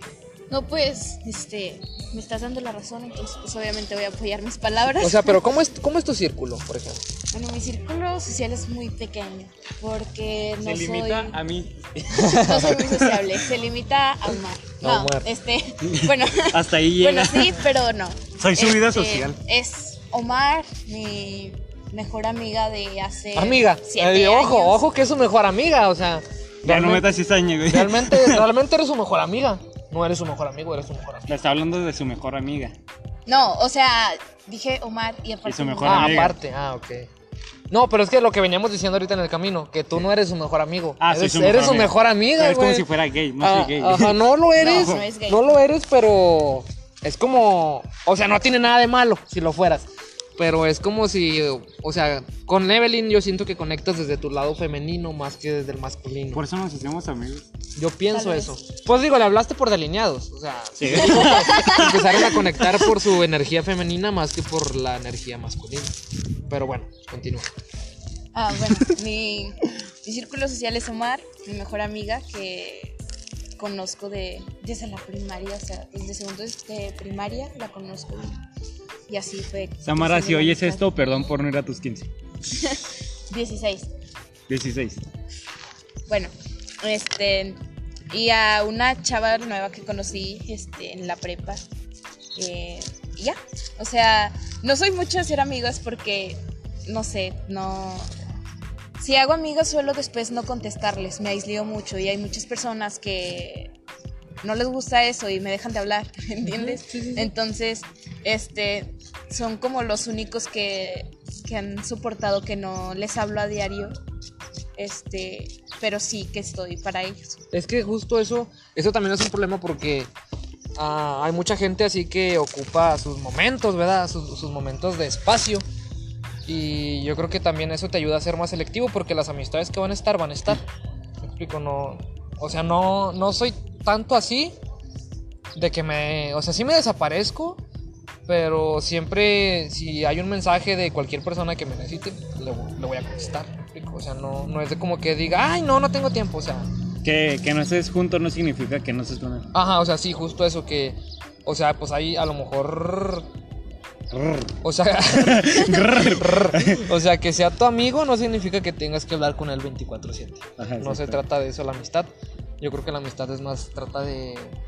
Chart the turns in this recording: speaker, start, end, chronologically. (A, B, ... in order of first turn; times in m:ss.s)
0:00.5-0:05.4 A
0:05.0-0:07.0 B
0:07.3-0:11.4 A
0:10.6-0:13.4 C
0:12.1-0:24.8 A
0:12.2-0:12.7 B
0:14.8-0:15.3 B
0:15.8-0:17.6 C
0:18.4-0:19.4 C
0:23.4-0:31.3 B
0:26.6-0:28.5 C
0:31.3-0:32.8 C
0:33.3-0:36.3 A
0:35.4-0:36.4 C
0:35.8-0:37.1 B
0:37.7-0:42.9 B
0:41.0-0:44.9 C
0:43.4-0:49.9 B
0:44.6-0:45.6 A
0:50.4-0:56.4 B
0:56.3-0:57.5 C
0:57.8-1:06.0 B
0:58.1-0:58.6 A
1:00.8-1:02.1 C
1:01.1-1:02.4 A
1:06.5-1:07.5 B
1:08.3-1:13.0 A
1:13.6-1:18.4 A
1:19.1-1:20.9 A
1:19.8-1:22.1 C
1:22.5-1:23.9 A
1:24.5-1:25.0 C
1:26.1-1:27.6 A
1:28.1-1:31.7 A
1:32.4-1:38.1 A
1:39.0-1:43.7 A
1:44.4-1:54.0 A
1:46.5-1:47.3 B
1:54.8-1:57.4 A
1:57.5-2:00.1 B
2:00.8-2:05.6 B
2:06.5-2:10.6 B
2:11.2-2:14.6 B
2:15.5-2:17.6 B
2:18.3-2:26.7 B
2:27.0-2:29.5 C
2:29.5-2:33.3 B
2:34.1-2:34.5 C
2:34.6-2:42.1 B
2:35.2-2:36.9 C
2:40.6-2:41.2 C
2:42.6-2:44.6 B